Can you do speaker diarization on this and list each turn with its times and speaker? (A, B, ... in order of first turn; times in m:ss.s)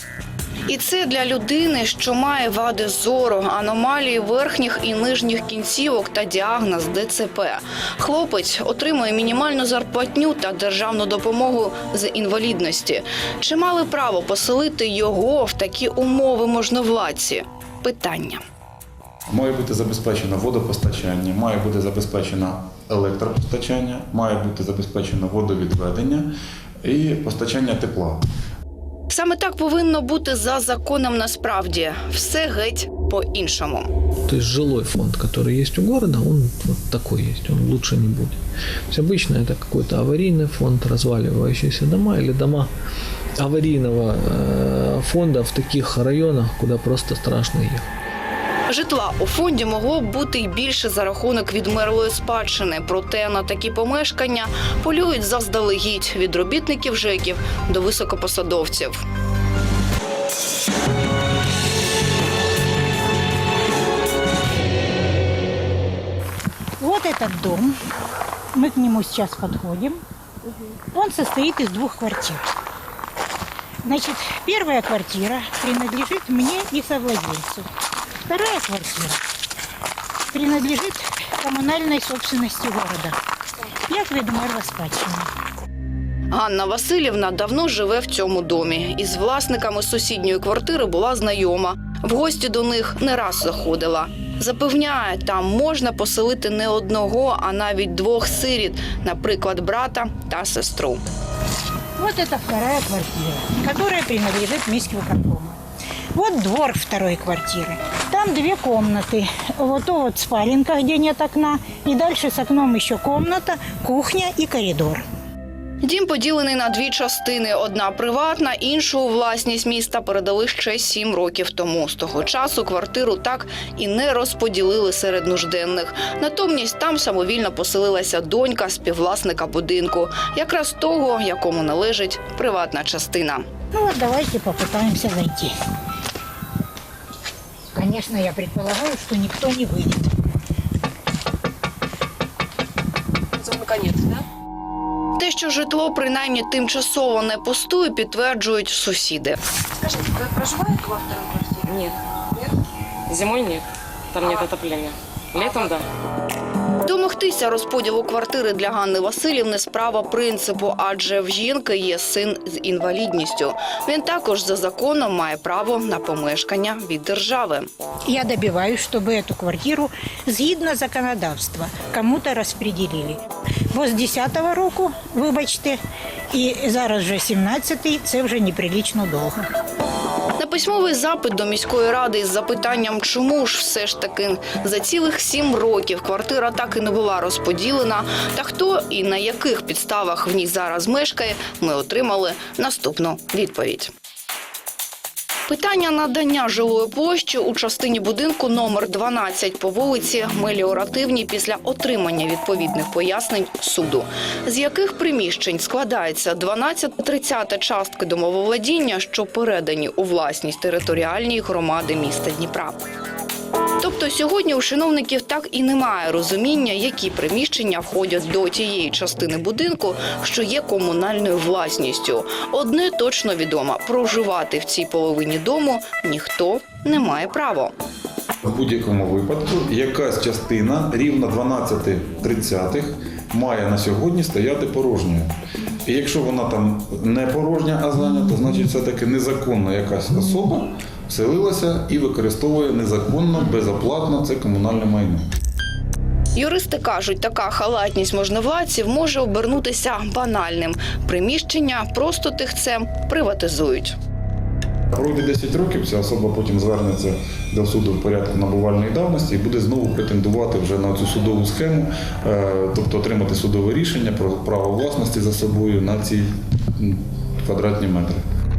0:00.7-0:18.4 A
0:19.3-0:26.3 B
0:26.8-0:28.2 B
0:29.1-0:33.9 A
0:34.3-0:38.4 C
0:38.9-0:42.7 C
0:43.4-0:47.9 C
0:48.7-0:59.0 A
1:06.8-1:07.8 D
1:08.5-1:10.0 D
1:10.9-1:12.5 D
1:13.8-1:17.7 D
1:18.2-1:19.2 D
1:20.3-1:23.2 D
1:23.9-1:25.3 D
1:26.3-1:41.0 A
1:42.0-1:45.6 D
1:46.1-1:55.0 D
1:55.8-2:13.4 A
2:13.7-2:15.5 D
2:17.7-2:20.1 D
2:23.4-2:24.2 E
2:25.2-2:29.4 A
2:29.9-2:32.0 E
2:33.1-2:35.8 E
2:36.8-2:47.7 A
2:48.1-2:55.8 D
2:56.3-2:59.5 D
3:00.4-3:13.9 A
3:15.5-3:32.8 A
3:33.8-3:47.7 A
3:48.4-3:55.3 B
3:55.8-4:05.2 B
4:06.4-4:14.0 A
4:14.9-4:28.2 B